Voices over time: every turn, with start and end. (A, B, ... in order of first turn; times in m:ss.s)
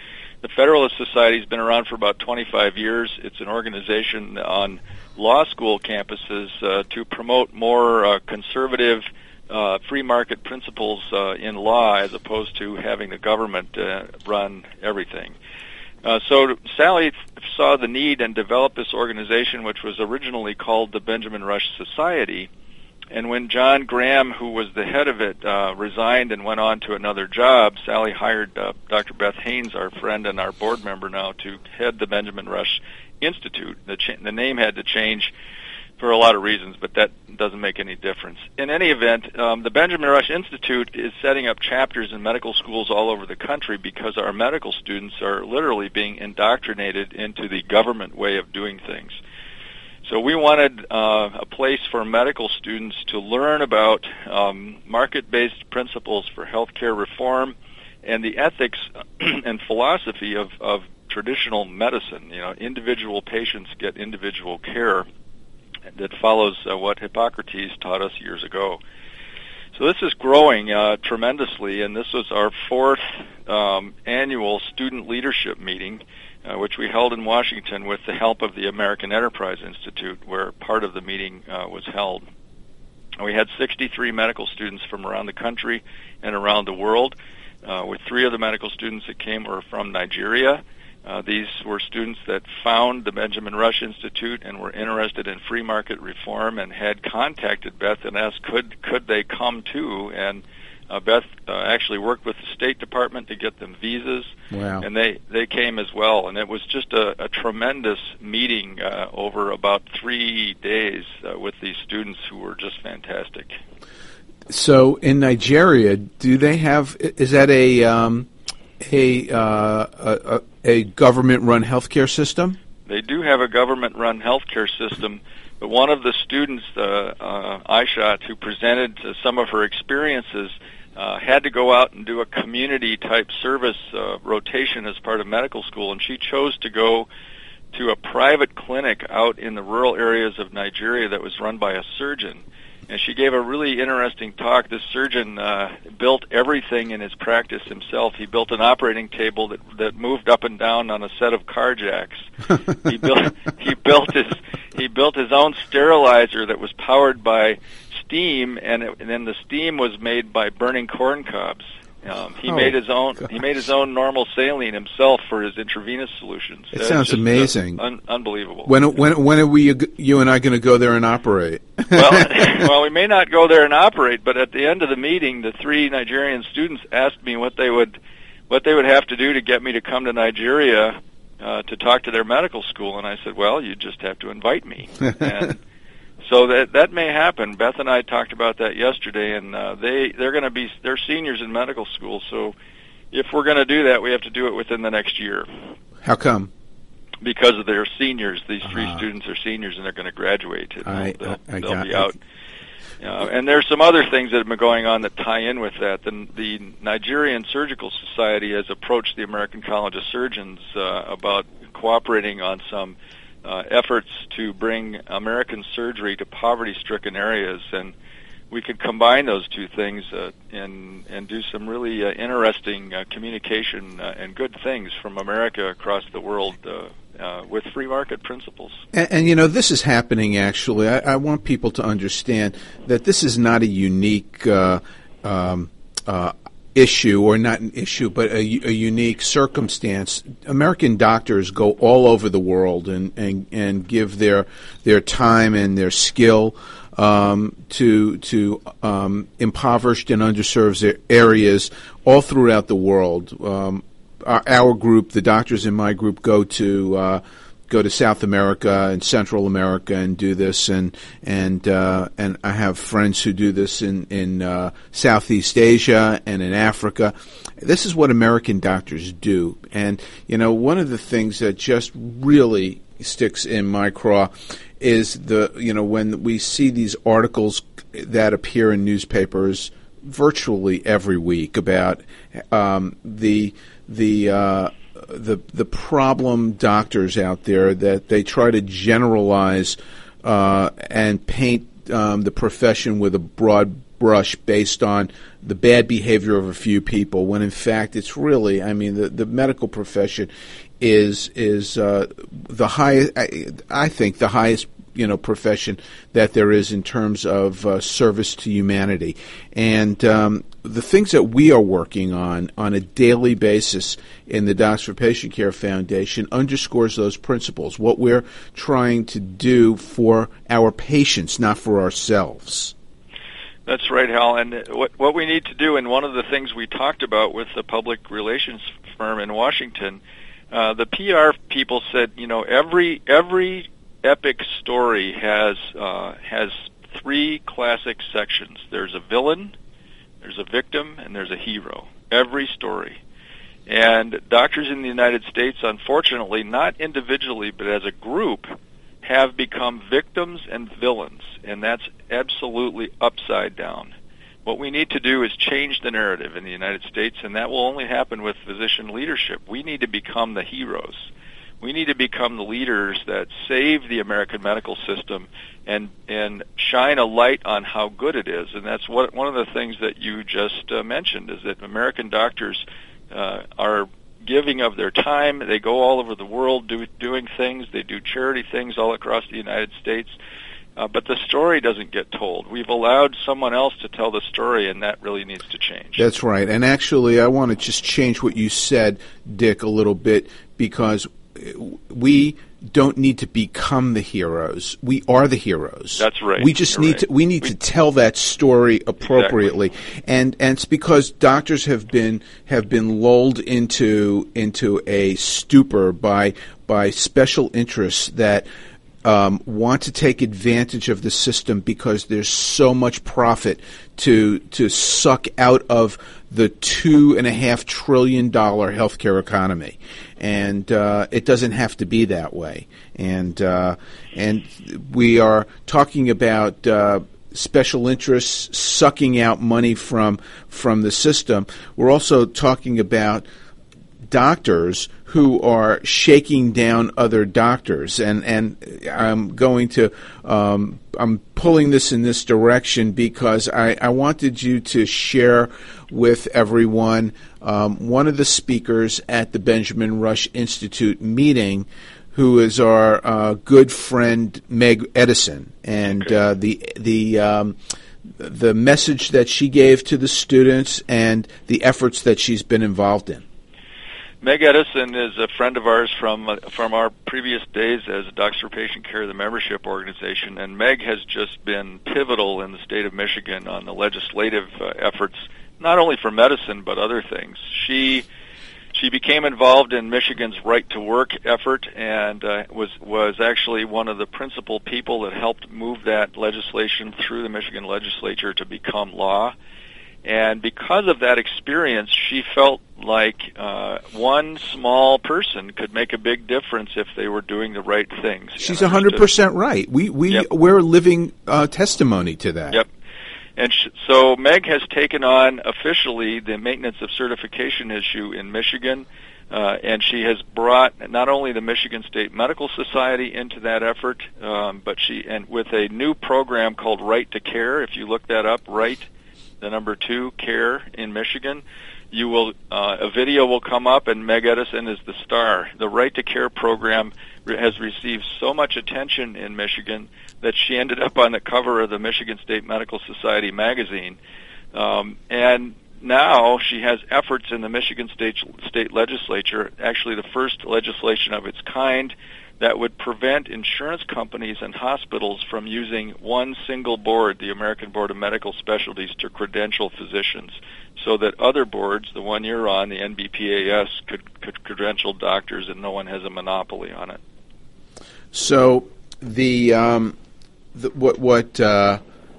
0:00.4-0:15.3 A
0:16.0-0:22.5 A
0:23.1-0:35.3 A
0:36.0-0:49.2 A
0:50.0-1:05.1 A
1:05.9-1:08.8 A
1:09.8-1:22.2 A
1:23.2-1:53.6 A
1:44.5-1:44.8 B
1:54.5-1:58.3 B
1:58.8-2:02.6 B
2:02.9-2:17.1 A
2:17.7-2:48.7 A
2:42.5-2:43.3 B
2:46.7-2:47.8 B
2:48.6-2:52.7 B
2:51.9-2:58.0 A
2:58.5-3:05.6 A
3:06.2-3:12.5 A
3:13.1-3:15.5 A
3:16.0-3:16.5 B
3:17.2-3:22.2 A
3:18.7-3:19.0 B
3:20.8-3:22.1 B
3:23.0-3:37.9 A
3:38.5-3:48.8 A
3:48.9-5:22.7 B
5:23.6-5:30.0 A
5:30.5-5:39.5 A
5:40.2-5:43.0 A
5:43.7-5:48.5 A
5:49.0-5:53.9 A
5:54.4-6:01.1 A
6:01.6-6:20.1 A
6:20.8-6:26.0 A
6:26.0-6:48.5 B
6:36.0-6:37.5 A
6:39.0-6:39.4 A
6:49.0-7:13.2 B
7:14.1-7:37.6 B
7:35.8-7:36.1 A
7:38.2-7:43.2 B
7:44.2-7:58.0 A
7:58.7-8:09.3 A
8:10.0-8:19.0 A
8:18.4-8:22.6 B
8:23.4-8:38.9 A
8:39.4-8:54.0 A
8:54.5-9:17.0 A
9:18.1-9:19.9 B
9:20.5-9:21.8 B